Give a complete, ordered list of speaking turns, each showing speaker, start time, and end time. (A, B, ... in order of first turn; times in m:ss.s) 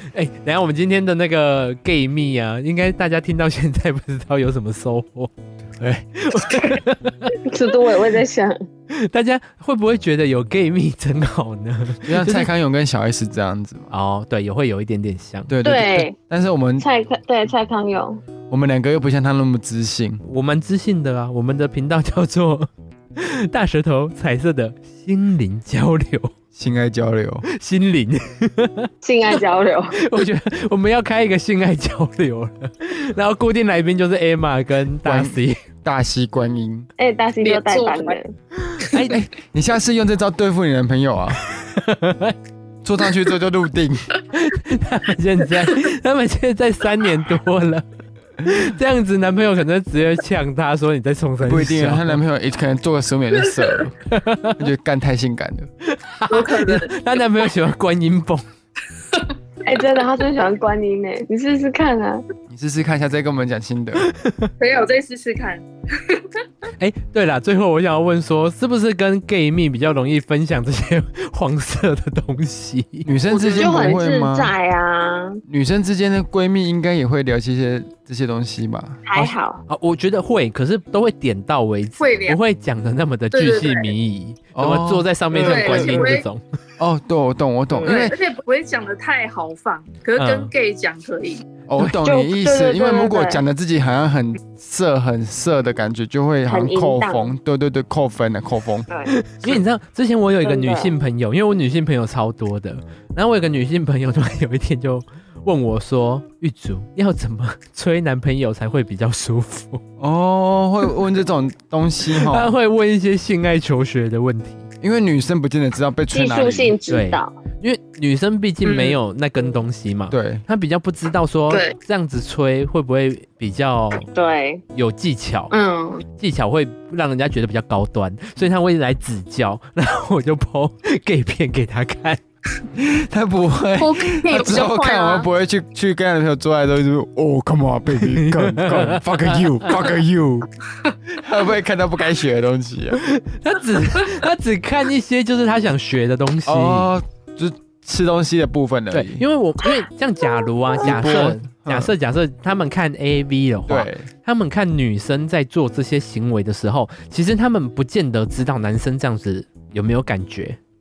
0:00.1-0:05.3 A
0:05.8-0:06.0 B
0:06.2-0:07.3 A
0:07.4-0:08.6 C
0:09.0-0:12.5 A
0:12.0-0:13.9 B
0:13.9-0:15.5 A
0:15.5-0:16.9 B
0:15.6-0:16.2 C
0:16.8-0:18.2 C
0:18.5-0:20.2 B
0:20.2-0:26.3 A
0:26.5-0:27.4 B
0:27.5-0:28.9 A
0:29.0-0:30.0 C
0:30.0-0:35.6 A
0:35.0-0:36.9 B
0:37.0-0:38.3 C
0:37.4-0:38.2 D
0:38.8-0:39.2 A
0:39.0-0:41.4 B
0:41.4-0:42.4 A
0:42.8-0:44.1 B
0:44.3-0:47.8 A
0:48.4-0:52.2 A
0:51.4-0:54.0 B
0:54.0-0:54.6 A
0:54.6-0:55.7 B
0:55.8-0:58.4 A
0:56.3-0:57.0 D
0:59.6-1:02.2 C
1:02.5-1:04.0 B
1:04.0-1:04.5 A
1:04.6-1:06.2 D
1:06.8-1:13.1 A
1:13.0-1:14.5 B
1:13.3-1:14.0 D
1:13.5-1:15.4 C
1:15.5-1:19.0 B
1:19.0-1:19.6 C
1:19.1-1:26.4 A
1:22.0-1:22.4 D
1:23.3-1:23.9 D
1:24.5-1:25.1 B
1:25.3-1:26.1 C
1:25.3-1:26.2 D
1:26.8-1:28.2 B
1:27.7-1:28.0 C
1:27.8-1:31.4 D
1:30.2-1:30.5 A
1:31.7-1:38.9 B
1:32.0-1:33.4 C
1:36.5-1:37.3 C
1:38.9-1:39.2 C
1:39.2-1:49.8 A
1:40.4-1:41.0 C
1:50.0-1:52.5 B
1:52.2-1:54.7 A
1:54.8-1:56.7 B
1:56.1-1:57.3 C
1:56.9-2:04.1 A
1:58.7-1:58.9 D
2:00.1-2:00.4 B
2:04.1-2:04.6 C
2:04.7-2:05.5 A
2:05.5-2:06.0 C
2:06.2-2:12.2 A
2:12.8-2:20.5 B
2:13.8-2:15.3 D
2:18.2-2:19.3 A
2:21.2-2:23.0 B
2:23.0-2:26.9 A
2:26.4-2:29.2 B
2:28.9-2:40.6 A
2:30.8-2:31.9 B
2:33.7-2:34.1 B